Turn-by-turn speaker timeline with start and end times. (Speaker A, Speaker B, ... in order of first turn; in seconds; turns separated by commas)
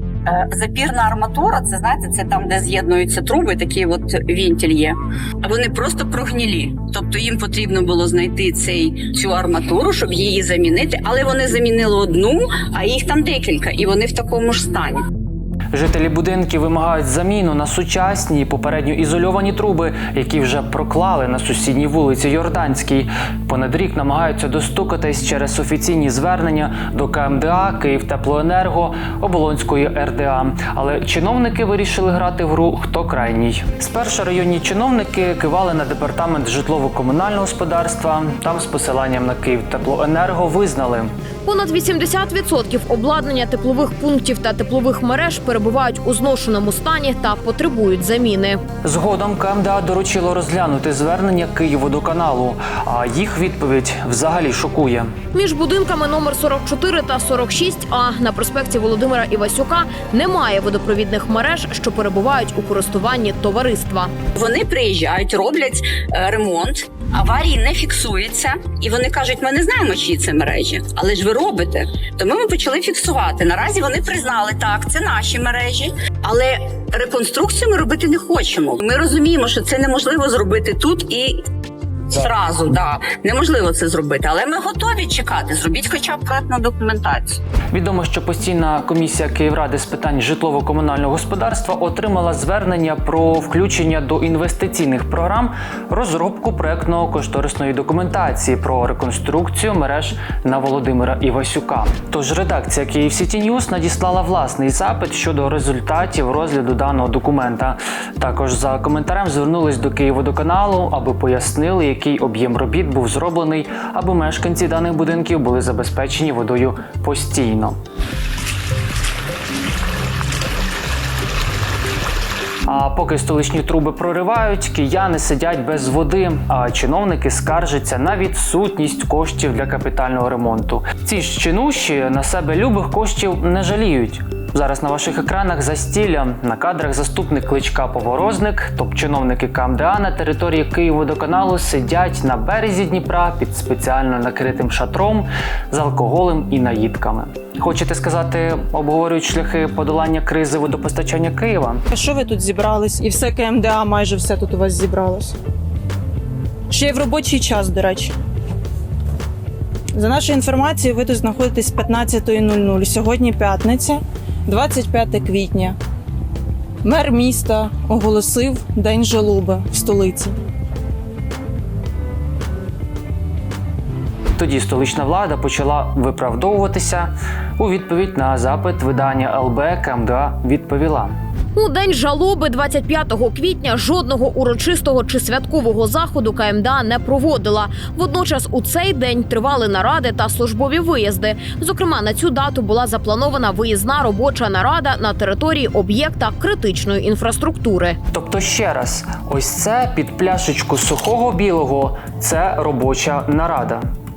Speaker A: 0.3-15.0, Speaker B: 15.7-41.1, Speaker C: 41.5-48.6, Speaker B: 48.8-55.1, Speaker C: 55.3-64.1, Speaker A: 64.3-81.4, Speaker A: 82.1-87.4, Speaker B: 87.7-117.8, Speaker B: 122.7-151.8, Speaker D: 151.9-155.4, Speaker D: 156.7-158.1, Speaker D: 159.9-165.8, Speaker D: 166.8-170.3, Speaker B: 174.4-181.2, Speaker C: 181.6-198.0, Speaker B: 198.1-203.9